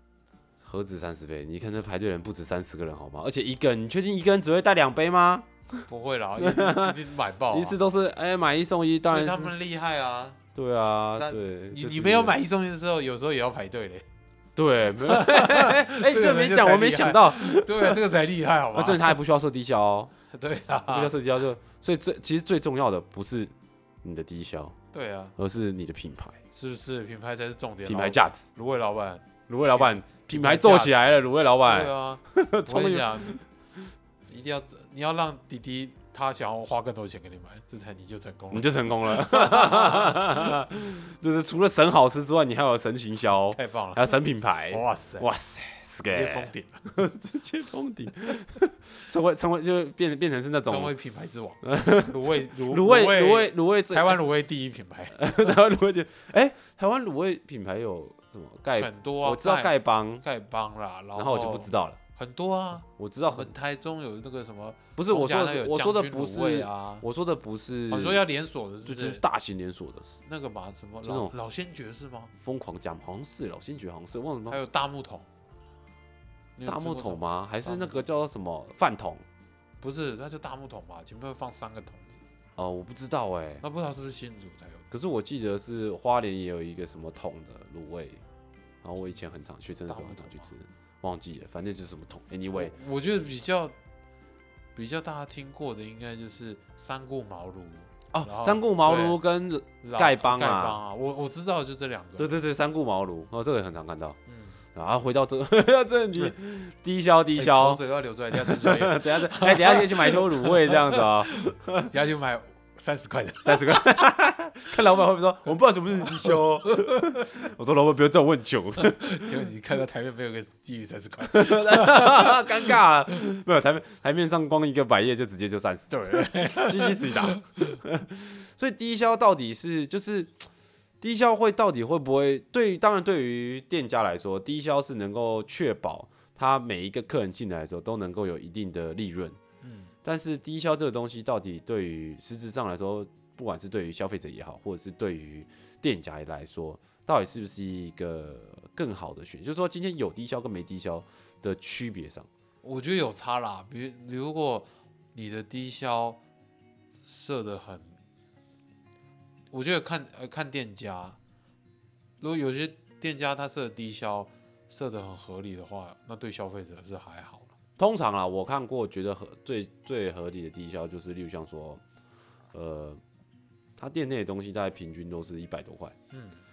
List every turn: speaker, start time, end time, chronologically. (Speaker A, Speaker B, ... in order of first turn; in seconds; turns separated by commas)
Speaker A: 0.6-5.8, Speaker B: 5.9-7.8, Speaker A: 6.4-7.0, Speaker A: 7.5-9.5, Speaker B: 9.1-10.4, Speaker A: 10.6-12.4, Speaker B: 11.2-14.1, Speaker A: 14.6-18.0, Speaker B: 15.0-19.2, Speaker A: 18.7-20.1, Speaker B: 20.3-21.1, Speaker A: 20.9-24.8, Speaker B: 24.9-25.4, Speaker A: 25.4-26.4, Speaker B: 26.5-33.4, Speaker A: 27.9-28.5, Speaker A: 29.5-33.4, Speaker B: 34.3-40.5, Speaker A: 38.5-50.9, Speaker B: 43.5-44.1, Speaker B: 44.7-45.3, Speaker B: 46.0-46.9, Speaker B: 50.6-55.5, Speaker A: 51.6-54.2, Speaker A: 55.1-60.2, Speaker B: 58.7-67.0, Speaker A: 61.1-62.0, Speaker A: 63.0-63.5, Speaker A: 65.0-68.2, Speaker B: 67.9-69.2, Speaker A: 68.8-70.0, Speaker B: 70.0-72.3, Speaker A: 71.0-71.3, Speaker A: 72.4-74.6, Speaker B: 74.5-75.3, Speaker B: 76.6-78.0, Speaker A: 76.7-79.2, Speaker B: 79.8-82.2, Speaker A: 82.6-83.6, Speaker B: 83.6-84.9, Speaker A: 84.9-88.2, Speaker A: 88.8-92.7, Speaker B: 89.9-90.5, Speaker B: 92.5-93.8, Speaker B: 94.8-99.2, Speaker A: 98.1-100.8, Speaker B: 99.8-102.3, Speaker A: 102.2-104.2, Speaker B: 104.3-104.6, Speaker A: 104.8-112.0, Speaker B: 107.3-114.1, Speaker A: 113.5-119.4, Speaker B: 116.0-117.2, Speaker B: 118.8-122.7, Speaker A: 121.3-130.5, Speaker B: 125.9-127.8, Speaker A: 131.0-139.4, Speaker B: 139.6-139.9, Speaker A: 140.0-152.3, Speaker B: 152.6-156.2, Speaker B: 156.9-158.0, Speaker B: 159.5-161.2, Speaker B: 162.2-167.5, Speaker A: 167.8-171.8, Speaker A: 172.5-173.0, Speaker A: 173.8-175.9, Speaker B: 176.1-176.4